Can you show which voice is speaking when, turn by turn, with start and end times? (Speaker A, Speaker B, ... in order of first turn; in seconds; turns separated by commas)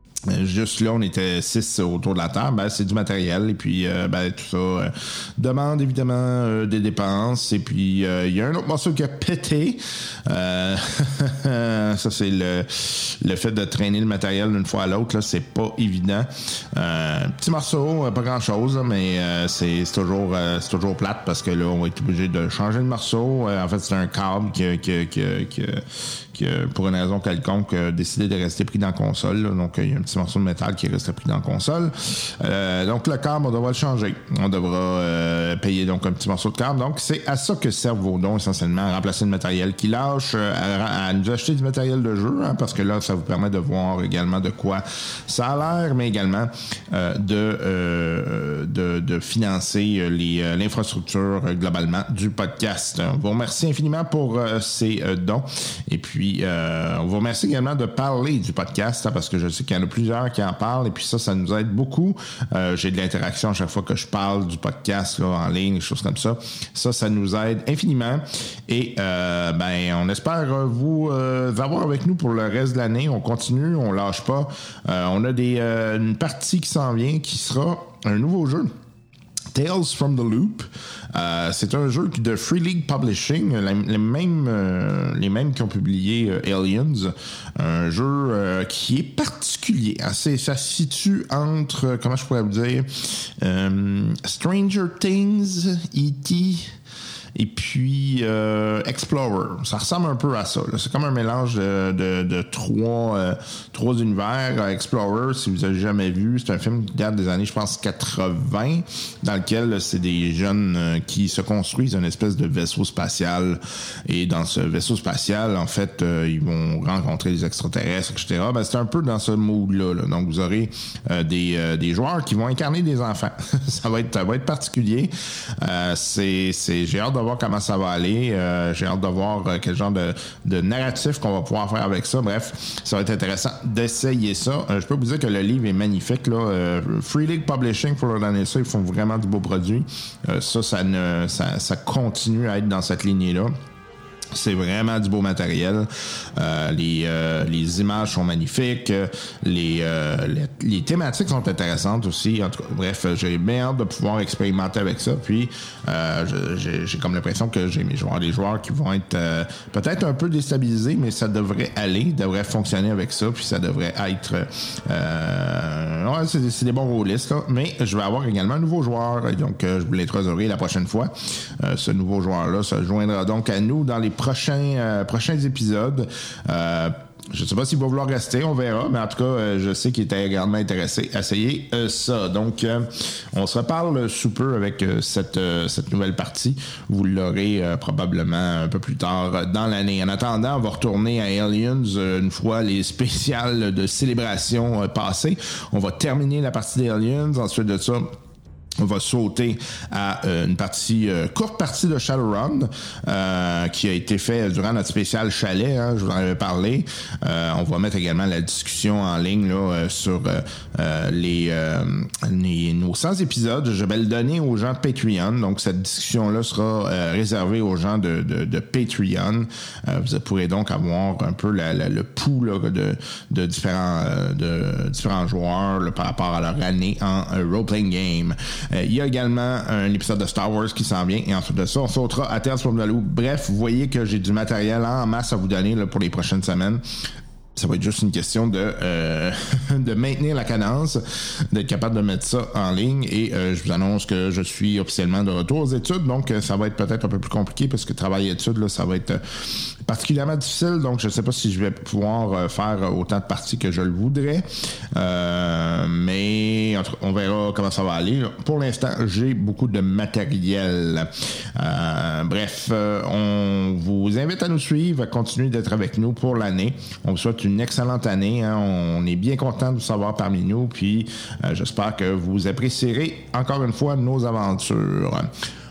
Speaker A: 0.2-78.7, Speaker A: 79.5-96.7, Speaker A: 97.3-143.5, Speaker A: 144.3-198.1, Speaker A: 198.8-275.3